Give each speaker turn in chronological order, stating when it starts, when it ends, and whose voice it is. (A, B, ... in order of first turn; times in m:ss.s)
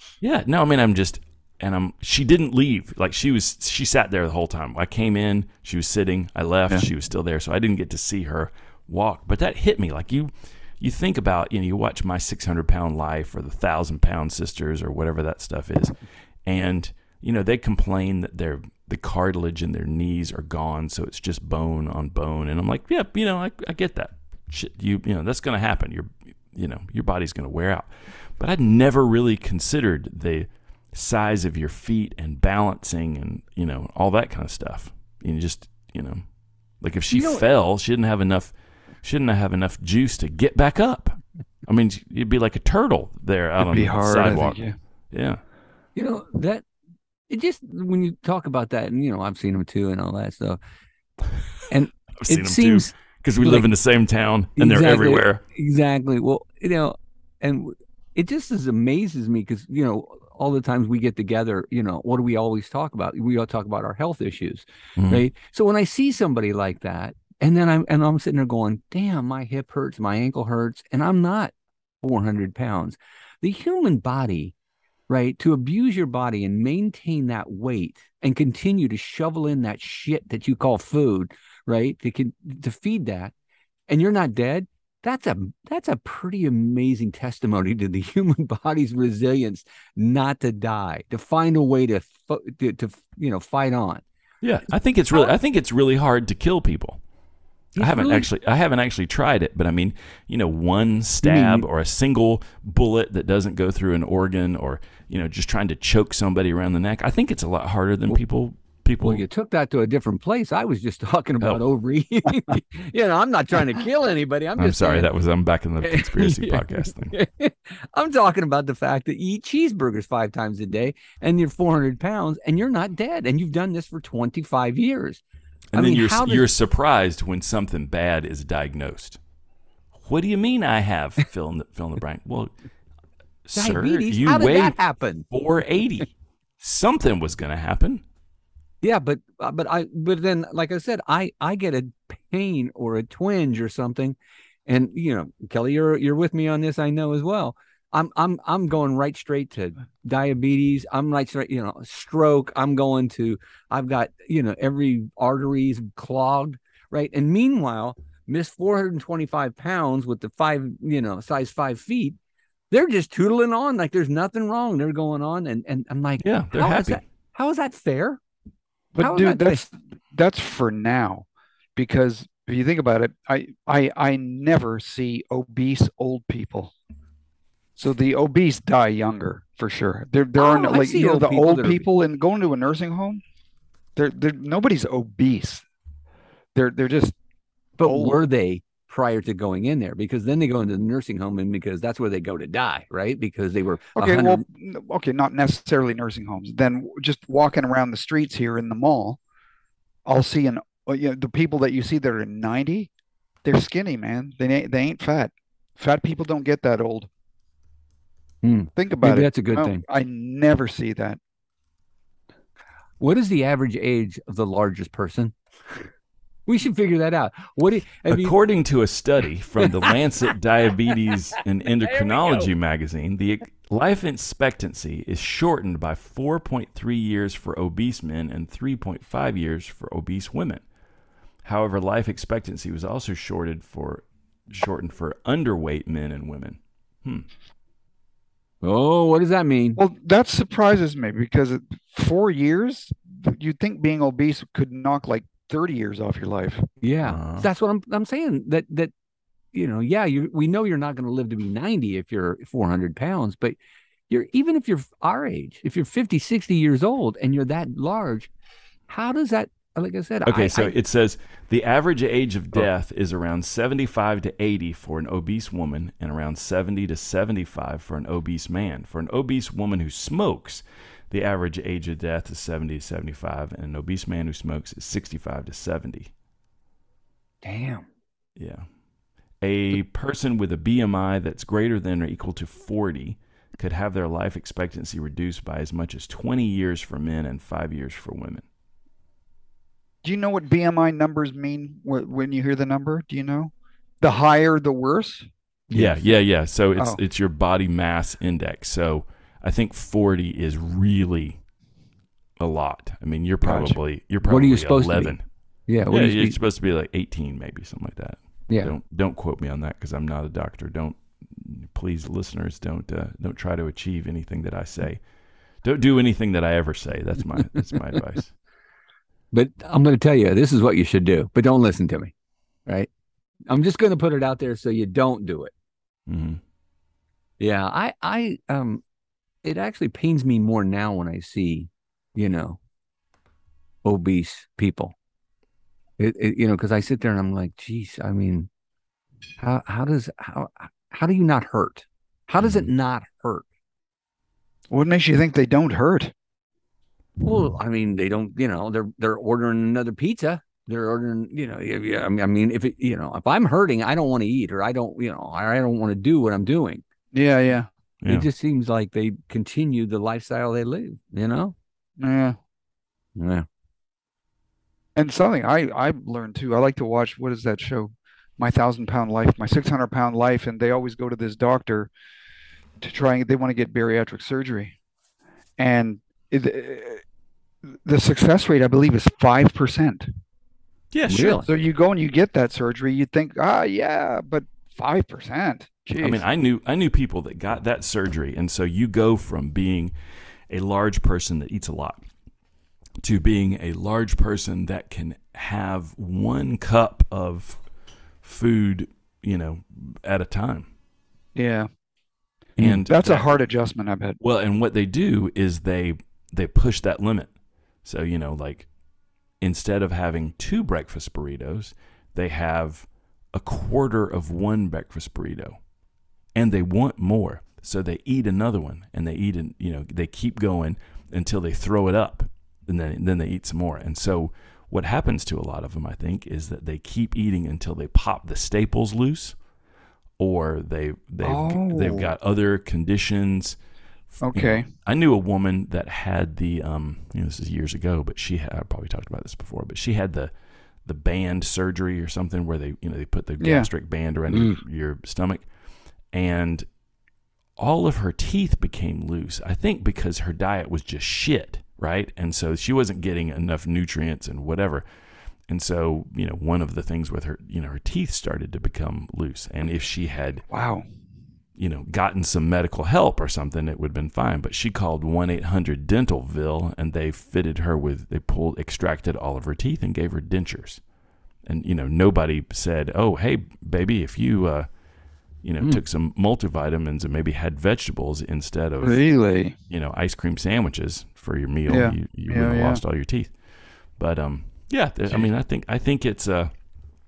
0:00.2-0:36.2 A
0:36.8-0:45.4 A
0:37.1-0:37.4 B
0:43.6-0:44.8 C
0:46.0-0:46.6 B
0:47.3-0:50.6 B
0:51.7-0:53.7 B
0:52.2-0:55.4 A
0:54.6-1:14.5 B
1:05.0-1:05.2 A
1:15.1-1:23.3 B
1:23.9-1:34.0 B
1:34.4-1:37.0 A
1:37.8-1:38.3 B
1:37.8-1:49.2 A
1:41.2-1:41.7 B
1:49.0-1:55.1 B
1:54.6-1:57.1 A
1:55.8-2:05.2 B
2:05.7-2:09.2 A
2:05.8-2:06.5 B
2:10.0-2:12.5 A
2:13.5-2:14.8 A
2:13.6-2:15.3 B
2:15.3-2:18.0 A
2:18.8-2:42.2 B
2:42.7-2:48.2 B
2:46.2-2:47.0 A
2:49.0-2:56.7 C
2:49.0-2:49.7 B
2:57.8-3:03.2 C
3:00.4-3:01.9 B
3:04.0-3:05.6 C
3:06.6-3:07.2 C
3:07.8-3:14.4 B
3:07.9-3:08.2 C
3:14.0-3:19.2 C
3:20.1-3:22.9 C
3:23.4-3:27.1 C
3:28.4-3:29.8 B
3:28.8-3:31.2 C
3:33.0-3:35.8 B
3:36.5-3:38.3 B
3:38.1-3:50.6 A
3:39.6-3:39.9 B
3:41.9-3:42.5 B
3:51.4-3:57.3 A
3:58.6-3:59.8 B
3:59.8-4:06.6 C
4:06.8-4:08.9 B
4:07.0-4:07.5 A
4:09.5-4:13.6 B
4:14.1-4:18.3 B
4:18.9-4:20.7 B
4:20.3-4:36.1 A
4:37.4-4:37.9 B
4:38.4-4:38.6 A
4:39.4-4:48.4 A
4:50.0-4:55.3 C
4:55.7-4:56.1 B
4:55.7-5:01.4 A
5:02.4-5:05.2 A
5:03.4-5:03.8 C
5:04.2-5:05.2 B
5:05.7-5:06.4 B
5:05.9-5:15.0 A
5:08.5-5:08.8 B
5:15.6-5:18.3 A
5:19.3-5:22.1 B
5:23.5-5:25.5 B
5:26.1-5:26.4 A
5:27.4-5:28.8 B
5:29.4-5:32.6 B
5:33.8-5:35.0 B
5:36.0-5:38.5 B
5:39.4-5:43.4 B
5:42.4-5:42.7 A
5:44.7-5:46.1 C
5:47.2-5:56.8 B
5:57.1-5:57.7 C
5:58.0-5:58.3 A
5:58.1-6:01.6 B
6:02.0-6:02.4 C
6:03.2-6:03.5 B
6:05.0-6:11.9 C
6:12.8-6:14.8 C
6:15.6-6:17.0 C
6:17.8-6:20.1 C
6:20.9-6:21.4 A
6:21.1-6:21.5 B
6:21.4-6:26.2 C
6:26.0-6:29.9 A
6:30.5-6:32.0 A
6:33.0-6:37.6 A
6:38.2-6:40.7 A
6:41.4-6:41.7 C
6:42.6-6:43.3 A
6:42.9-6:44.2 C
6:44.2-6:47.3 A
6:47.8-6:48.7 A
6:49.4-6:55.6 A
6:56.4-7:09.4 A
7:10.2-7:13.6 A
7:11.2-7:12.1 C
7:14.1-7:20.3 A
7:14.2-7:14.7 C
7:20.9-7:25.5 A
7:23.4-7:23.7 C
7:24.3-7:24.6 B
7:26.1-7:26.7 A
7:27.6-7:34.8 A
7:35.5-7:40.5 A
7:40.5-7:40.9 C
7:41.6-7:50.8 A
7:51.5-7:54.7 A
7:55.4-7:59.0 A
7:58.8-7:59.5 C
7:59.7-8:03.3 A
8:01.7-8:02.8 C
8:04.0-8:06.5 A